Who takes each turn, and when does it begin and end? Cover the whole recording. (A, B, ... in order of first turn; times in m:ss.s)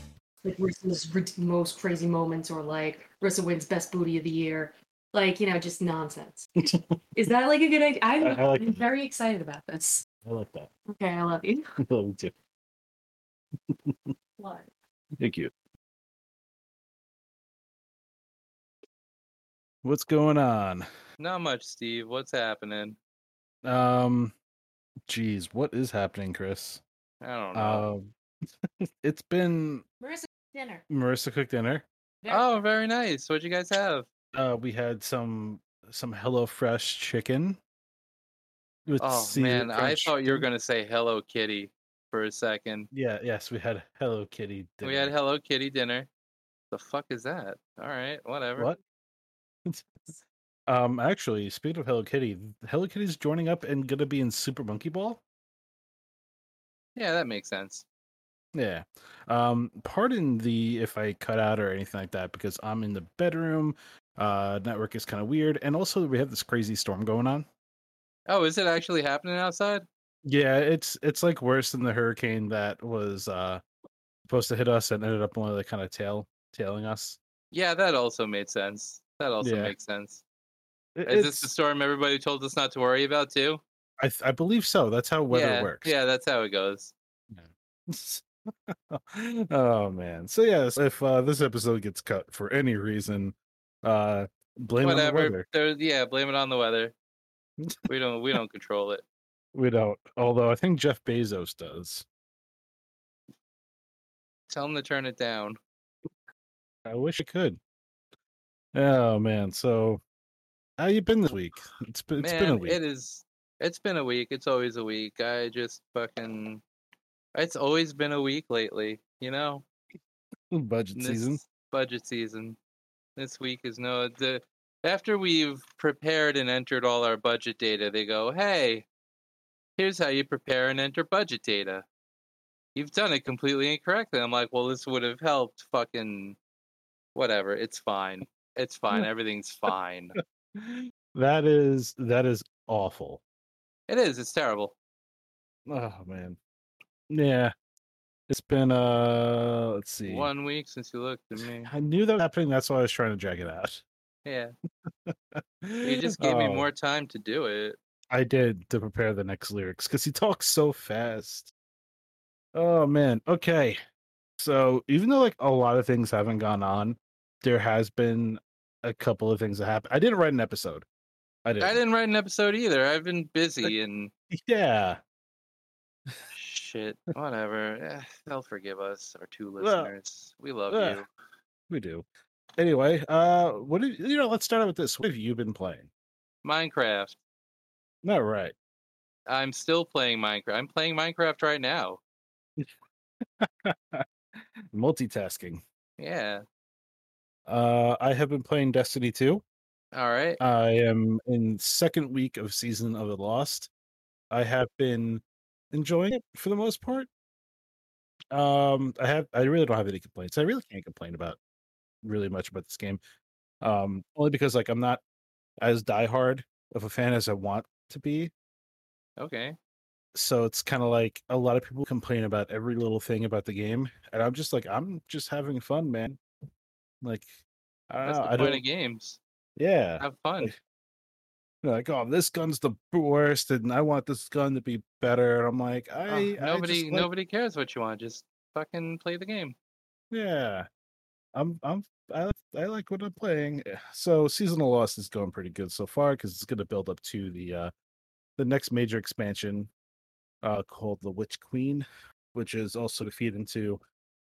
0:00.4-0:06.5 A
0:07.2-0:10.0 A
0:08.2-0:08.8 B
0:10.2-0:10.7 B
0:10.9-0:11.7 A
0:11.8-0:12.3 B
0:13.7-0:14.1 B
0:14.4-0:14.7 A
0:15.2-0:15.5 B
0:19.8-0:20.9 B
0:21.2-0:23.0 C
0:23.6-0:24.3 B
0:25.1-0:26.8 B
0:27.2-0:27.9 C
0:27.6-0:28.1 B
0:29.0-0:29.8 B
0:30.0-0:30.8 A
0:30.9-0:31.8 B
0:32.3-0:34.1 C
0:34.3-0:37.6 B
0:38.9-0:40.5 B
0:39.0-0:42.9 C
0:42.9-0:45.1 B
0:44.8-0:46.1 C
0:46.7-0:48.7 C
0:49.6-0:55.2 B
0:57.0-0:57.8 C
0:58.5-1:07.5 B
1:08.3-1:09.8 C
1:10.2-1:13.6 B
1:14.3-1:17.2 B
1:17.5-1:20.2 C
1:19.4-1:19.7 B
1:21.0-1:21.5 B
1:21.0-1:23.6 C
1:24.0-1:25.9 B
1:25.3-1:26.9 C
1:27.3-1:35.4 B
1:34.8-1:36.9 C
1:37.9-1:39.0 C
1:39.5-1:42.0 B
1:44.5-1:45.6 C
1:46.8-1:47.6 B
1:48.7-1:50.0 B
1:50.8-1:52.8 B
1:52.2-1:56.6 C
1:57.3-1:59.7 C
2:00.5-2:01.4 B
2:01.0-2:02.6 C
2:03.2-2:08.9 C
2:09.8-2:11.9 C
2:12.8-2:16.4 C
2:17.2-2:20.2 C
2:20.6-2:23.2 B
2:23.9-2:24.8 C
2:25.7-2:26.4 B
2:27.1-2:27.5 B
2:28.3-2:30.3 B
2:30.1-2:31.7 C
2:31.6-2:33.8 B
2:34.2-2:34.5 C
2:34.9-2:36.7 B
2:35.8-2:37.8 C
2:38.1-2:41.5 B
2:42.6-2:43.8 B
2:44.4-2:50.9 B
2:51.4-2:51.8 B
2:51.6-2:54.1 C
2:54.3-2:55.0 B
2:56.3-3:01.1 C
2:59.6-2:59.9 B
3:00.7-3:01.0 B
3:01.7-3:02.1 B
3:02.6-3:05.9 B
3:06.4-3:07.2 C
3:08.0-3:08.6 B
3:09.3-3:12.0 C
3:13.4-3:15.6 B
3:16.0-3:16.4 C
3:17.5-3:19.4 B
3:19.9-3:20.4 C
3:20.4-3:23.7 B
3:24.3-3:27.1 B
3:28.3-3:31.4 B
3:32.0-3:33.0 B
3:33.6-3:35.0 B
3:35.6-3:38.3 B
3:39.2-3:39.6 C
3:40.2-3:46.2 B
3:47.0-3:48.6 B
3:48.0-3:49.2 C
3:49.6-3:50.6 B
3:50.0-3:50.5 C
3:51.6-3:57.1 B
3:56.1-3:59.6 C
4:00.1-4:00.7 B
4:01.3-4:07.7 B
4:08.4-4:09.7 B
4:10.4-4:13.8 B